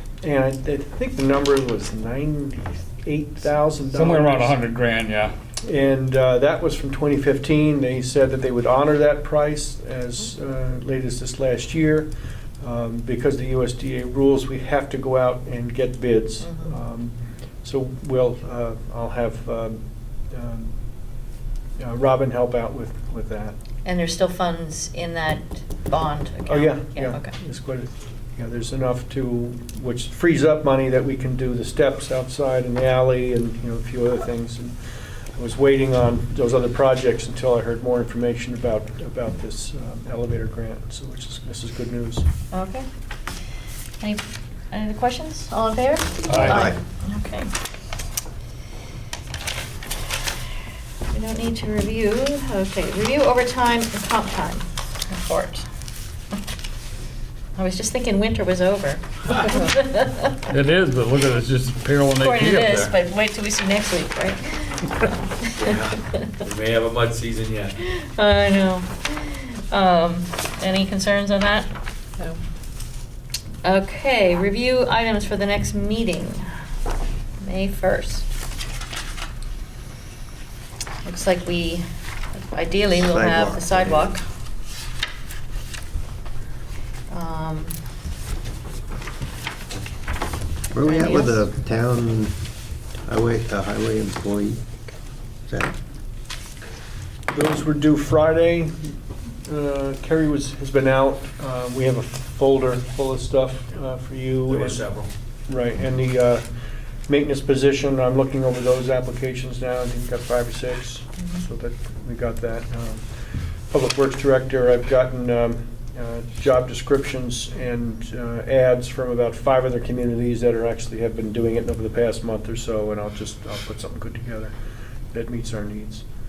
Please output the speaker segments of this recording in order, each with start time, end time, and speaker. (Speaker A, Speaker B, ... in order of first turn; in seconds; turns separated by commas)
Speaker A: 0.2-4.6, Speaker B: 3.9-5.3, Speaker A: 5.6-12.1, Speaker A: 12.6-19.8, Speaker A: 20.3-20.7, Speaker A: 21.8-23.5, Speaker C: 23.8-27.3, Speaker A: 26.4-34.8, Speaker A: 35.3-42.2, Speaker C: 42.5-42.9, Speaker C: 44.0-47.5, Speaker B: 46.3-46.6, Speaker D: 46.3-46.8, Speaker C: 51.1-55.6, Speaker C: 57.5-60.4, Speaker B: 60.5-62.9, Speaker C: 62.1-66.4, Speaker E: 65.6-67.8, Speaker C: 67.8-71.7, Speaker C: 73.6-76.5, Speaker C: 77.4-78.3, Speaker C: 81.0-84.2, Speaker D: 82.9-84.2, Speaker C: 87.1-87.8, Speaker D: 90.7-92.4, Speaker C: 90.8-91.5, Speaker D: 93.0-94.6, Speaker D: 95.5-95.7, Speaker A: 97.3-98.9, Speaker A: 99.4-104.8, Speaker E: 104.5-105.1, Speaker A: 105.5-106.4, Speaker A: 107.1-113.0, Speaker A: 113.7-124.5, Speaker A: 125.1-126.0